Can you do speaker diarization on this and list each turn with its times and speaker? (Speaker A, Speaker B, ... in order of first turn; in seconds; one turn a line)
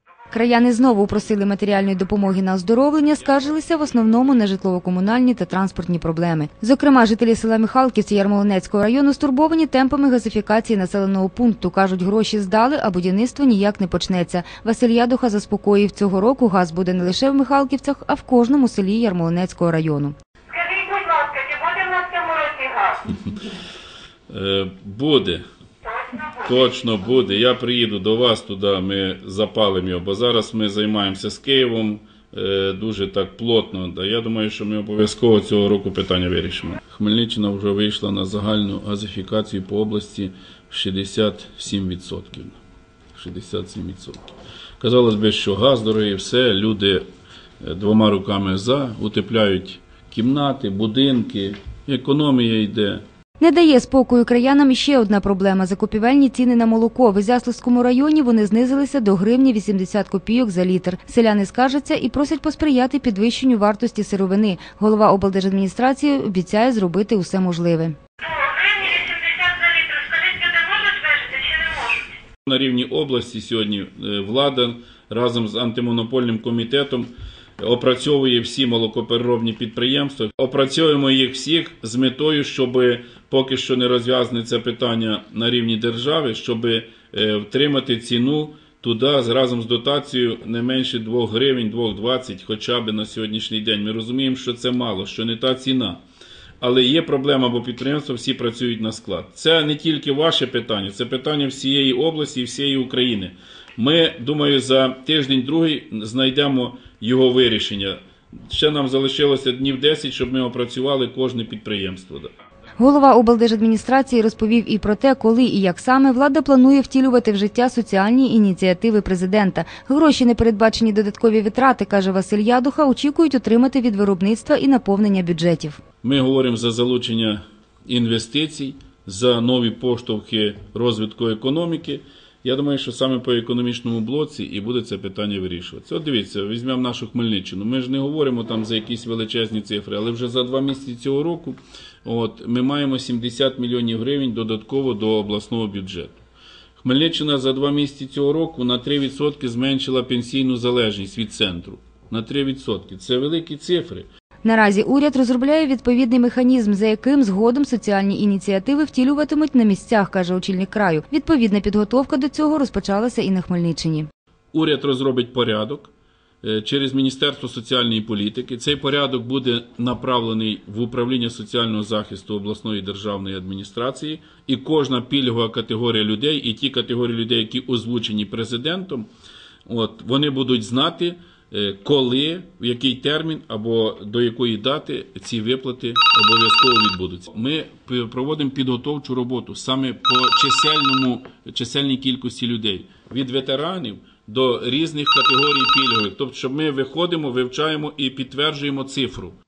Speaker A: 0.3-20.2
Speaker B: 3.3-4.0
Speaker C: 20.5-23.1
Speaker B: 24.3-25.4
Speaker B: 26.3-42.6
Speaker B: 43.1-44.2
Speaker B: 44.8-47.0
Speaker B: 47.6-53.0
Speaker A: 53.4-68.0
Speaker C: 68.2-72.0
Speaker B: 72.5-96.0
Speaker B: 96.6-112.3
Speaker A: 112.8-125.8
Speaker B: 126.0-146.2
Speaker B: 146.8-154.1
Speaker A: 154.4-164.1
Speaker B: 164.5-165.9
Speaker B: 166.4-179.1
Speaker B: 179.7-199.4